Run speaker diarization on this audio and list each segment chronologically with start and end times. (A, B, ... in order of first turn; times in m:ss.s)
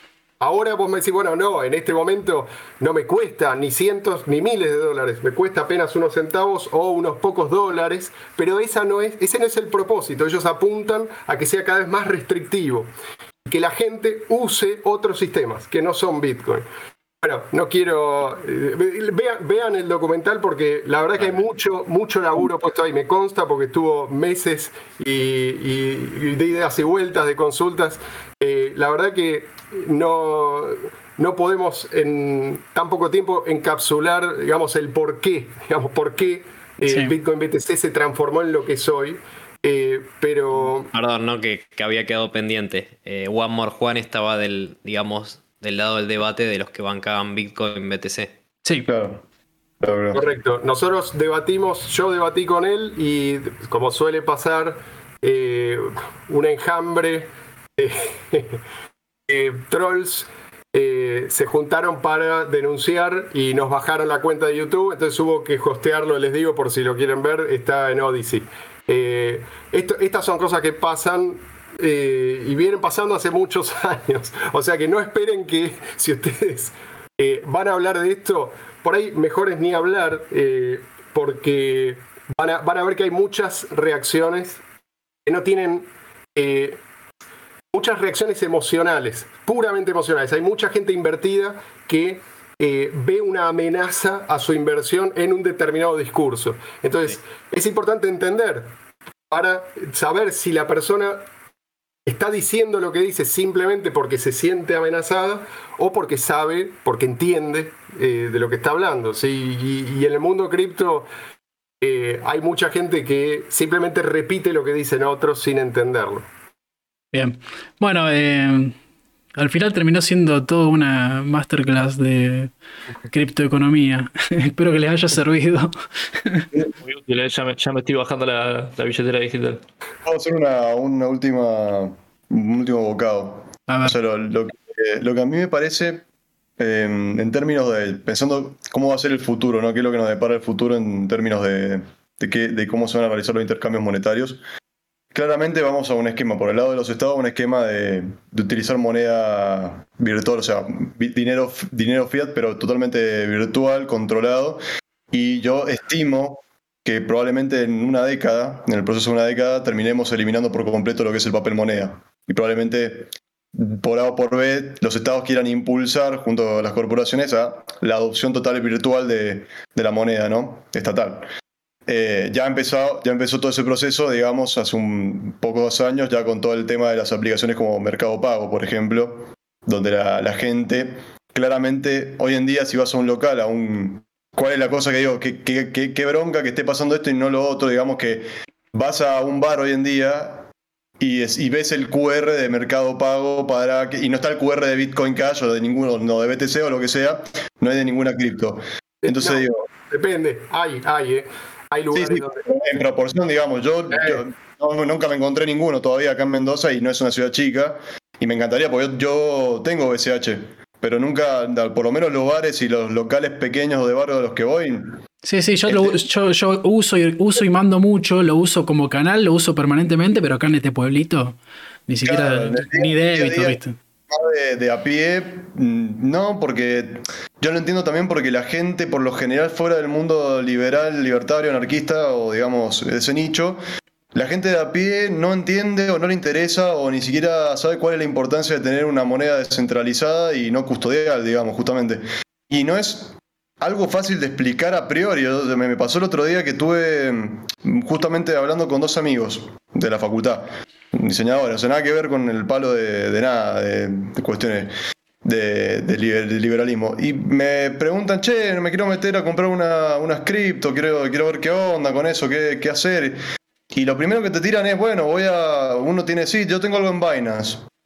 0:00.4-0:12.9 A
0:13.5-0:16.7 A
0:17.2-0:40.9 A
0:36.9-0:37.1 B
0:40.9-0:48.4 C
0:48.9-0:49.2 D
0:49.8-0:50.2 D
0:50.1-0:58.6 A
0:59.3-1:24.6 A
1:25.2-1:26.8 A
1:27.7-1:38.7 A
1:39.3-1:41.2 A
1:42.1-1:51.1 A
1:51.8-1:56.3 A
1:57.1-1:58.8 B
1:59.4-2:02.5 B
2:03.1-2:06.5 B
2:06.8-2:09.6 E
2:10.0-2:16.0 D
2:13.7-2:14.0 B
2:16.6-2:24.4 D
2:25.1-2:34.6 D
2:35.1-2:51.3 D
2:51.9-3:10.5 D
3:11.0-3:19.6 D
3:19.0-3:22.4 A
3:21.9-3:35.0 D
3:23.9-3:24.2 A
3:35.2-3:43.8 B
3:35.7-3:36.0 D
3:42.0-3:43.6 D
3:44.1-3:53.6 D
3:54.1-4:14.7 D
4:15.2-4:23.2 D
4:23.7-4:27.7 D